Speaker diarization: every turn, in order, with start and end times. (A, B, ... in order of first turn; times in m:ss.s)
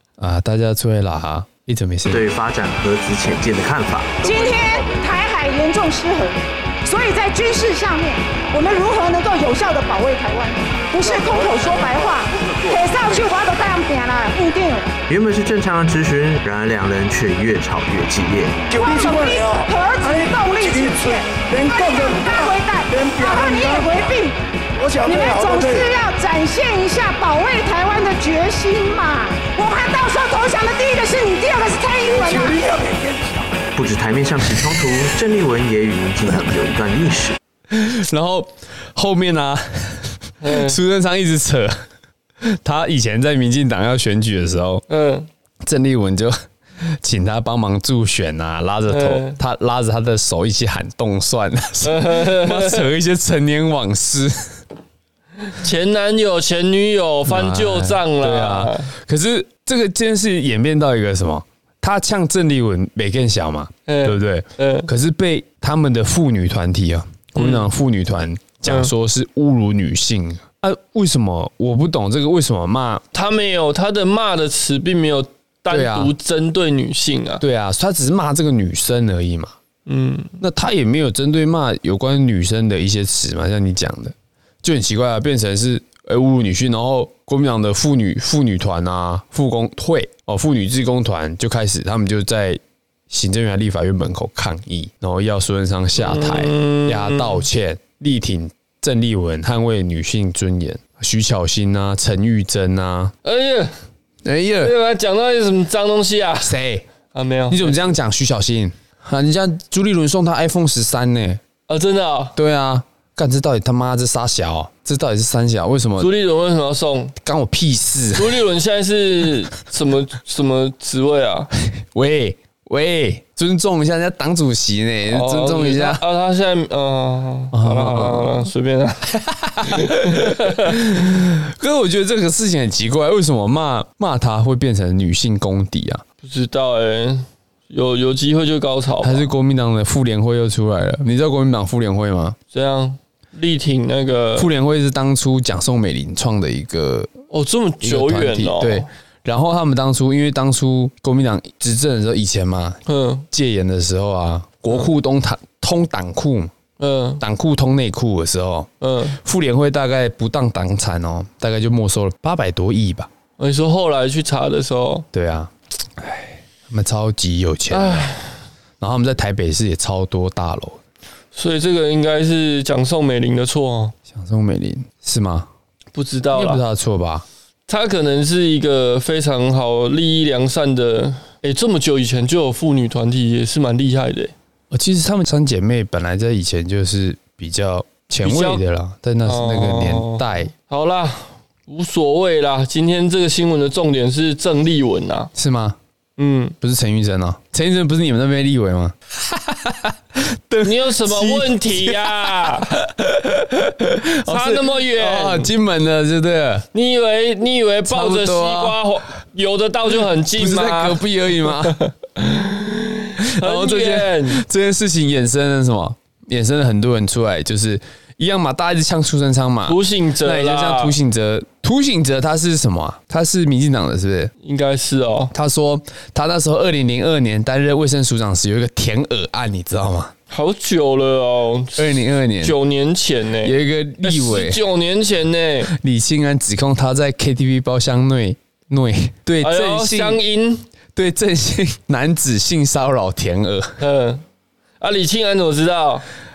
0:00.2-0:02.3 A
0:02.1-0:04.8 B
0:04.2-0:15.0 C
0:15.1-0:18.6 B
0:18.7-0:19.6 D
0:18.8-0:24.4 C
0:20.6-0:22.3 D
0:23.0-0:23.9 D
0:24.8-0:25.8 D
0:25.0-0:32.6 C
0:32.4-0:33.3 D
0:33.8-0:37.4 B
0:37.7-0:41.8 A
0:40.4-0:40.8 E
0:42.4-0:44.8 A
0:44.9-0:45.3 E
0:45.6-0:46.4 A
0:47.0-0:54.6 A
0:48.9-0:49.4 E
0:51.8-0:52.9 E
0:55.5-0:58.9 E
0:57.3-1:13.0 A
1:03.9-1:04.9 E
1:07.4-1:07.7 E
1:08.7-1:08.9 E
1:13.1-1:17.4 E
1:15.7-1:16.1 A
1:17.4-1:19.5 A
1:19.9-1:20.4 E
1:20.4-1:43.1 A
1:36.0-1:37.4 E
1:43.2-1:43.7 E
1:44.2-1:44.8 A
1:44.6-1:46.6 E
1:46.4-1:46.9 A
1:47.1-1:47.8 E
1:47.5-1:51.4 A
1:51.7-1:52.4 E
1:52.4-1:56.1 A
1:56.0-1:57.2 E
1:57.2-1:58.4 A
1:58.1-2:01.5 E
2:01.7-2:06.0 A
2:05.1-2:09.1 E
2:07.5-2:08.5 A
2:09.1-2:16.0 A
2:09.6-2:10.8 E
2:16.2-2:19.3 E
2:19.0-2:22.4 A
2:22.5-2:24.5 E
2:24.4-2:27.1 A
2:27.3-2:28.9 E
2:27.8-2:32.8 A
2:32.9-2:33.2 E
2:33.3-2:36.5 A
2:36.8-2:37.2 E
2:37.2-2:43.1 A
2:38.8-2:39.2 E
2:43.4-2:45.1 E
2:45.1-2:48.1 A
2:47.7-2:48.4 E
2:48.8-2:50.8 A
2:51.3-2:54.0 E
2:54.1-2:55.5 A
2:55.9-2:56.6 E
2:56.3-2:57.2 A
2:57.7-3:04.3 E
3:04.7-3:10.5 A
3:08.2-3:08.6 E
3:09.3-3:15.3 E
3:15.3-3:15.8 A
3:16.2-3:16.6 E
3:16.6-3:26.7 A
3:20.6-3:22.8 E
3:24.3-3:25.5 E
3:26.7-3:34.4 E
3:27.9-3:28.8 A
3:30.4-3:31.8 A
3:33.2-3:44.3 A
3:39.7-3:41.0 E
3:44.4-3:45.3 E
3:45.3-3:50.1 A
3:50.3-3:55.7 E
3:51.8-3:52.6 A
3:53.4-3:54.6 A
3:55.7-4:00.2 A
3:59.4-4:00.7 E
4:00.9-4:03.8 A
4:03.8-4:04.2 E
4:04.8-4:06.0 E